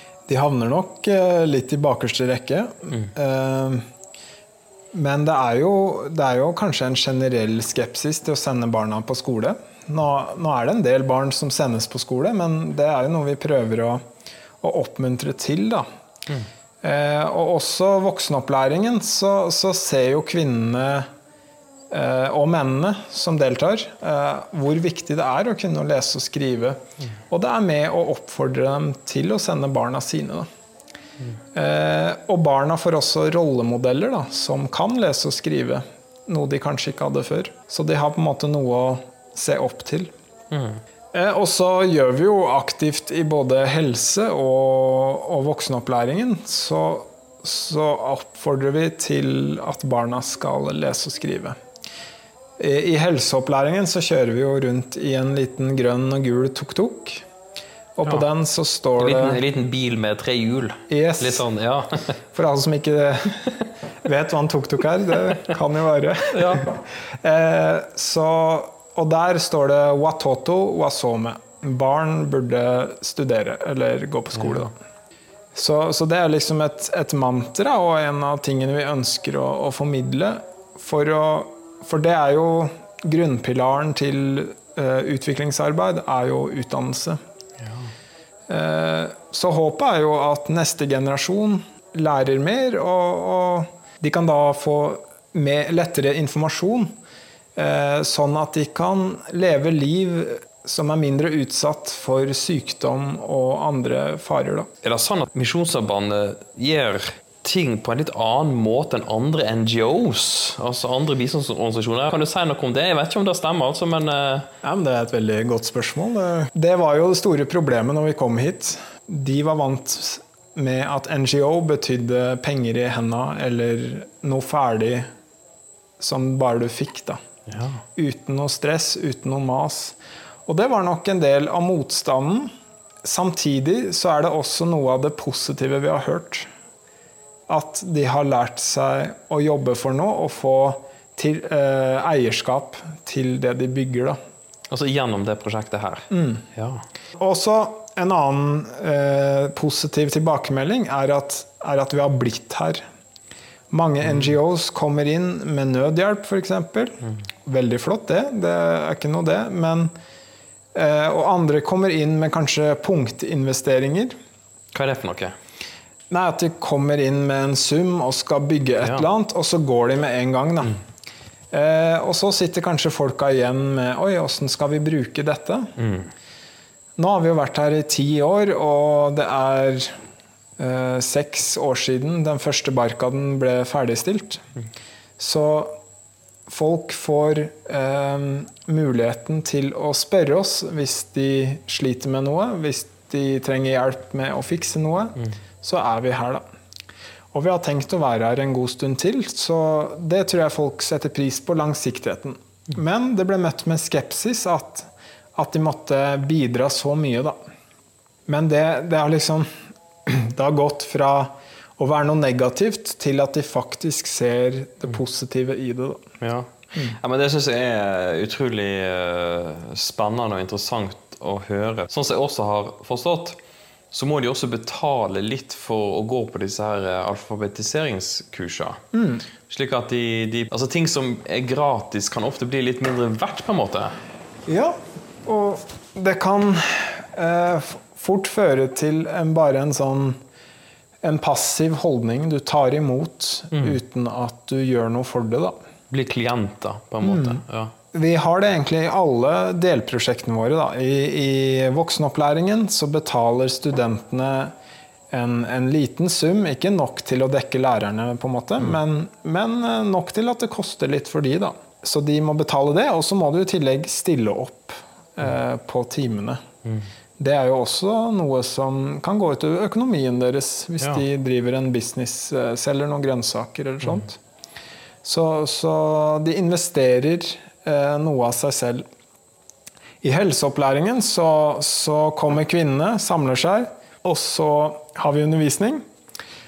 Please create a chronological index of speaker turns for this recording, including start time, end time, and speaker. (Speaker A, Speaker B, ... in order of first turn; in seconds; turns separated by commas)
Speaker A: 0.3-3.8, Speaker A: 4.9-14.1, Speaker A: 14.6-15.9, Speaker A: 16.8-21.1, Speaker A: 21.9-30.5, Speaker A: 31.5-40.1, Speaker B: 40.5-40.8, Speaker A: 41.1-51.6, Speaker A: 52.6-57.2, Speaker A: 58.0-59.4, Speaker B: 59.0-62.2, Speaker A: 60.9-61.4, Speaker A: 62.3-74.7, Speaker B: 66.3-66.7, Speaker B: 74.4-74.6, Speaker A: 75.5-87.2, Speaker B: 87.6-87.9, Speaker A: 88.5-97.0, Speaker A: 97.5-104.7, Speaker B: 104.8-114.5, Speaker A: 114.6-125.1, Speaker A: 126.0-127.2, Speaker B: 127.5-127.8, Speaker A: 128.0-132.5, Speaker A: 133.0-136.5, Speaker A: 137.5-144.2, Speaker B: 144.7-146.8, Speaker A: 146.1-146.4, Speaker A: 147.2-152.8, Speaker A: 153.7-159.9, Speaker B: 154.0-154.3, Speaker A: 160.7-164.2, Speaker B: 164.7-165.3, Speaker A: 166.1-170.8, Speaker B: 168.8-169.1, Speaker A: 171.5-175.7, Speaker B: 175.8-176.1, Speaker A: 177.0-179.9, Speaker A: 180.6-184.4, Speaker A: 185.2-185.8, Speaker A: 186.5-196.4, Speaker A: 197.3-207.4, Speaker A: 208.3-209.5, Speaker A: 210.1-216.0, Speaker B: 216.2-223.4, Speaker B: 223.9-228.8, Speaker A: 228.9-229.2, Speaker B: 229.5-234.0, Speaker A: 234.4-240.2, Speaker A: 241.0-245.6, Speaker B: 245.9-247.7, Speaker A: 247.0-247.4, Speaker A: 247.9-254.5, Speaker A: 255.1-266.4, Speaker A: 267.2-274.2, Speaker A: 275.0-278.9, Speaker A: 280.0-285.8